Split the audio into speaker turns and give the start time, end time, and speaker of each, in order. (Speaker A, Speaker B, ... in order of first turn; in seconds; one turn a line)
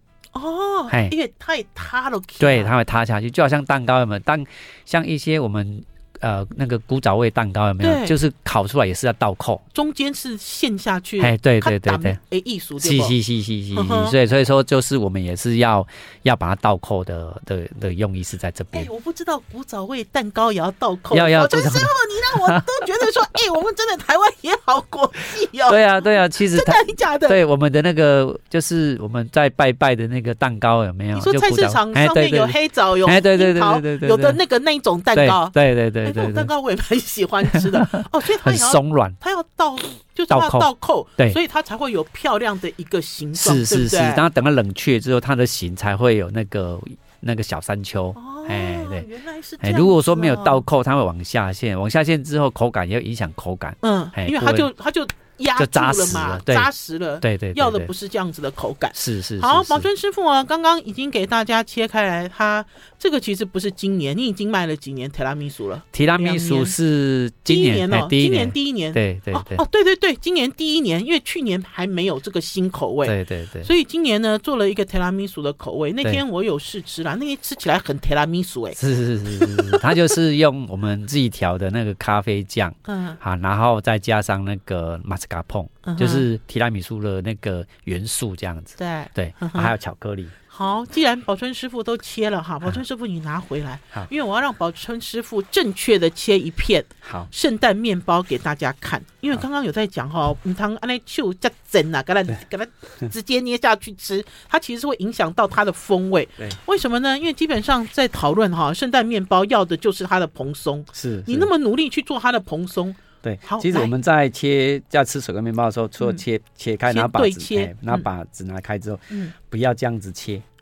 Speaker A: 0.3-2.7
Speaker B: 2.4-9.6
Speaker A: 7.8-8.1
Speaker A: 9.7-13.1
Speaker B: 11.2-12.2
Speaker B: 12.8-18.9
Speaker A: 13.7-14.1
Speaker A: 18.7-27.4
Speaker B: 21.1-23.0
Speaker B: 25.7-34.4
Speaker A: 31.1-44.2
Speaker B: 35.1-36.5
Speaker B: 37.5-39.2
Speaker B: 40.3-41.4
Speaker B: 43.4-49.0
Speaker A: 48.1-50.6
Speaker B: 49.6-54.7
Speaker A: 53.8-66.7
Speaker B: 55.5-56.7
Speaker B: 57.2-57.9
Speaker B: 58.9-59.9
Speaker B: 65.9-69.6
Speaker A: 67.5-78.8
Speaker B: 73.0-73.7
Speaker B: 78.8-90.3
Speaker A: 79.3-79.8
Speaker A: 82.8-83.2
Speaker A: 85.8-86.2
Speaker A: 88.8-89.7
Speaker A: 90.5-113.9
Speaker B: 97.0-97.3
Speaker B: 110.9-111.5
Speaker B: 113.2-120.4
Speaker A: 116.9-118.0
Speaker A: 119.1-119.3